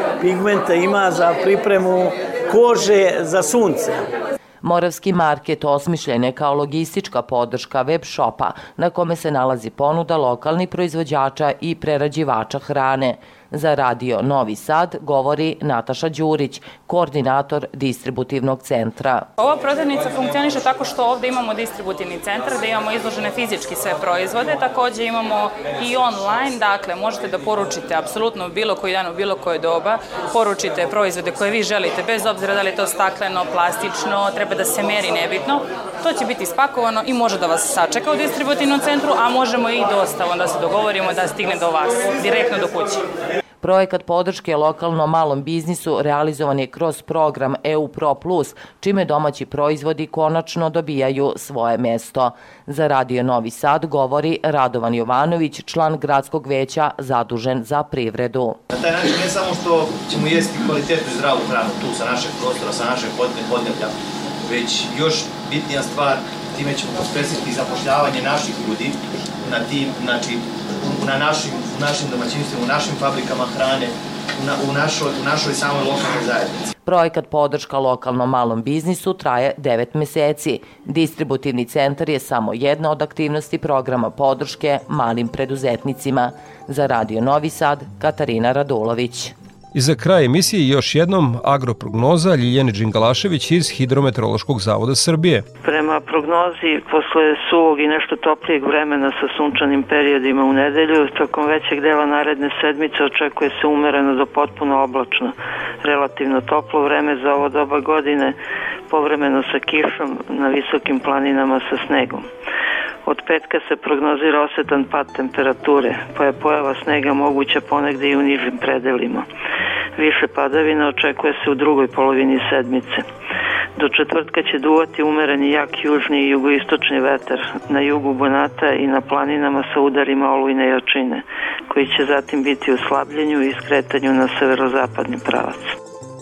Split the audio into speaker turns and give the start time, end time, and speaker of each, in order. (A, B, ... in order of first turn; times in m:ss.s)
0:00.2-0:04.0 A
0:04.6-0:19.3 B
0:19.4-0:43.0 C
0:43.6-0:58.6 B
0:58.7-1:03.9 D
1:04.4-1:16.7 D
1:16.8-1:29.3 B
1:29.7-1:35.4 E
1:35.6-1:48.4 F
1:48.9-1:52.2 F
1:53.0-1:59.2 F
2:00.0-2:03.0 F
2:03.8-2:15.7 F